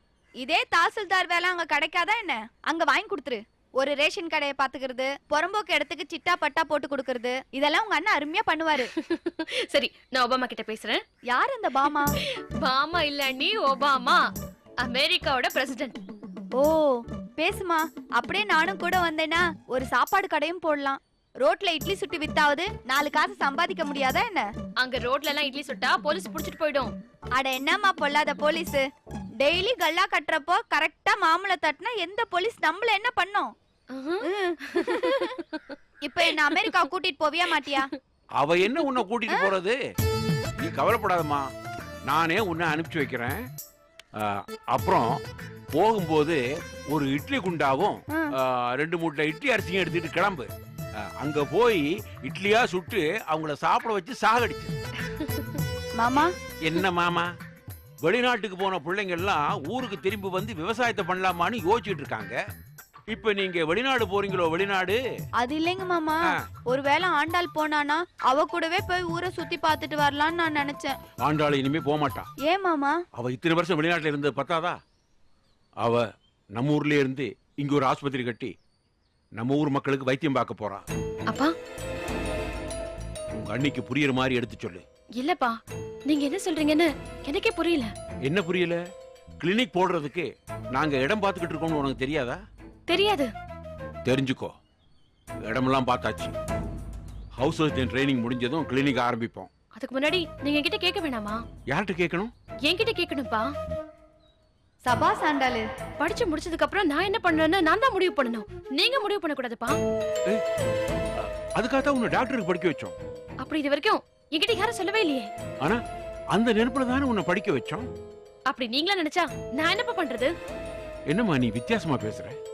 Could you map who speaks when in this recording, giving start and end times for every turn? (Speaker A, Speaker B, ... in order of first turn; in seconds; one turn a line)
Speaker A: 0.4-8.9
Speaker B: 9.0-11.0
Speaker A: 11.3-12.1
Speaker B: 12.6-14.2
Speaker B: 14.8-15.9
Speaker A: 16.6-24.5
Speaker B: 24.8-26.9
Speaker A: 27.4-28.8
Speaker A: 29.4-33.5
Speaker B: 33.9-35.7
Speaker A: 34.2-35.4
Speaker A: 36.0-37.9
Speaker C: 38.4-39.8
Speaker C: 40.6-41.5
Speaker C: 42.1-43.4
Speaker C: 44.2-45.2
Speaker C: 45.7-50.5
Speaker C: 51.0-54.7
Speaker A: 56.0-56.3
Speaker C: 56.6-57.3
Speaker C: 58.0-62.4
Speaker C: 63.1-65.0
Speaker A: 65.4-71.0
Speaker C: 71.2-72.3
Speaker A: 72.4-73.0
Speaker C: 73.1-74.8
Speaker C: 76.5-78.5
Speaker C: 79.4-80.8
Speaker C: 83.4-84.8
Speaker B: 85.2-85.6
Speaker B: 86.1-87.9
Speaker C: 88.2-88.8
Speaker C: 89.4-92.4
Speaker B: 92.9-93.3
Speaker C: 94.0-94.5
Speaker C: 95.5-96.3
Speaker C: 97.4-99.5
Speaker B: 99.8-101.4
Speaker C: 101.7-102.3
Speaker B: 102.7-103.5
Speaker A: 104.8-105.6
Speaker B: 106.0-109.8
Speaker C: 111.2-113.0
Speaker B: 113.4-115.3
Speaker C: 116.3-117.9
Speaker B: 118.5-120.3
Speaker C: 121.1-122.4